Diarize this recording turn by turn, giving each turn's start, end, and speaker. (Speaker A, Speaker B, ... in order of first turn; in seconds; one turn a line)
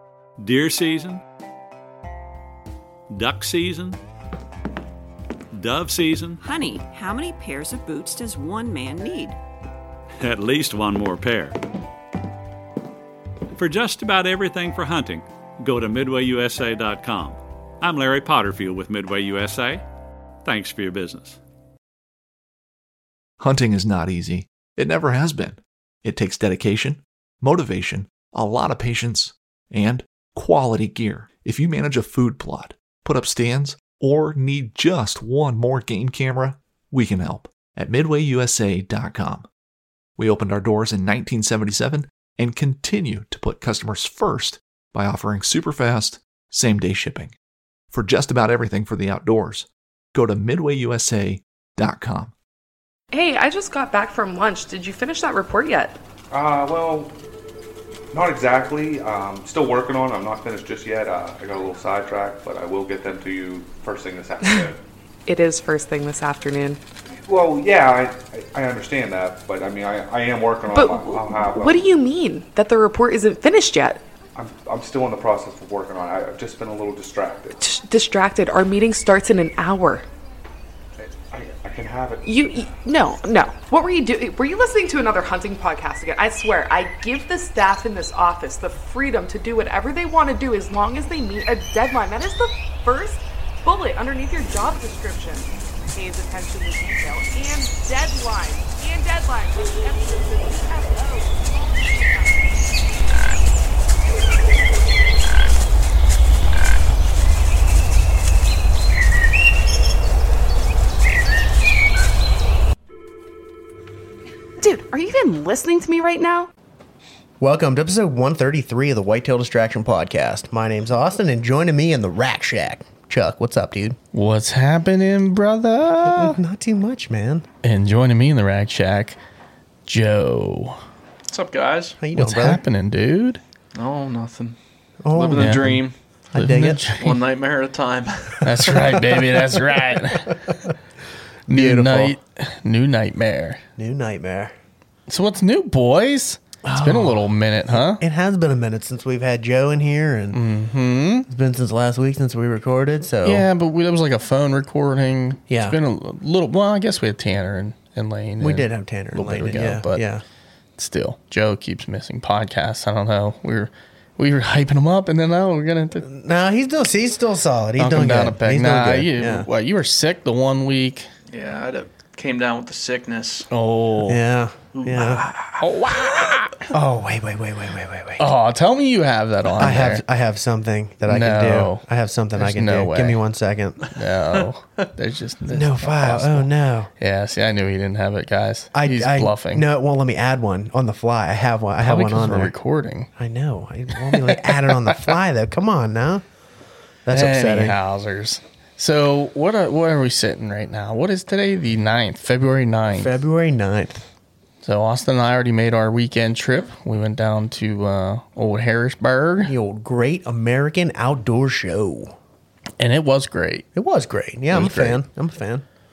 Speaker A: 0.4-1.2
Speaker A: 3.1-4.0
Speaker A: 5.5-6.4
Speaker B: 6.4-9.4
Speaker A: 10.2-11.6
Speaker A: 13.5-19.8
Speaker A: 20.4-21.4
Speaker C: 23.4-39.5
Speaker C: 40.2-47.3
Speaker C: 47.9-52.3
Speaker D: 53.1-56.0
Speaker E: 56.3-57.1
Speaker E: 58.1-64.8
Speaker D: 65.3-66.8
Speaker E: 67.1-71.9
Speaker D: 70.7-74.0
Speaker E: 74.3-77.6
Speaker D: 77.6-80.0
Speaker E: 81.0-82.3
Speaker D: 82.2-102.9
Speaker D: 114.6-116.5
Speaker F: 117.4-124.0
Speaker G: 124.1-126.4
Speaker F: 126.1-127.5
Speaker G: 127.6-129.2
Speaker G: 129.8-130.8
Speaker H: 131.3-132.0
Speaker F: 132.0-132.6
Speaker G: 132.1-133.4
Speaker H: 133.7-134.6
Speaker F: 135.0-136.9
Speaker H: 135.1-135.9
Speaker G: 135.4-135.7
Speaker G: 136.3-137.2
Speaker H: 137.0-138.9
Speaker G: 138.4-140.5
Speaker F: 141.5-142.1
Speaker G: 141.5-143.6
Speaker F: 143.8-144.5
Speaker G: 145.1-148.0
Speaker F: 146.6-150.4
Speaker G: 150.3-151.3
Speaker F: 151.3-153.5
Speaker G: 153.2-160.0
Speaker F: 155.5-155.8
Speaker F: 158.4-160.2
Speaker G: 160.8-166.1
Speaker F: 166.0-169.5
Speaker G: 167.8-171.1
Speaker H: 171.3-173.5
Speaker G: 173.5-174.2
Speaker F: 174.1-175.2
Speaker H: 174.7-176.3
Speaker G: 175.6-176.7
Speaker F: 176.7-178.2
Speaker G: 178.2-180.0
Speaker F: 179.6-183.8
Speaker G: 181.1-181.8
Speaker G: 182.4-183.2
Speaker G: 183.9-189.6
Speaker F: 185.5-186.9
Speaker F: 188.7-192.5
Speaker G: 191.8-193.1
Speaker F: 193.2-196.2
Speaker G: 194.1-195.1
Speaker F: 197.1-197.8
Speaker G: 197.1-203.1
Speaker F: 202.9-204.1
Speaker G: 204.6-209.5
Speaker F: 209.4-212.2
Speaker G: 212.8-213.7
Speaker F: 213.7-215.6
Speaker G: 214.5-215.0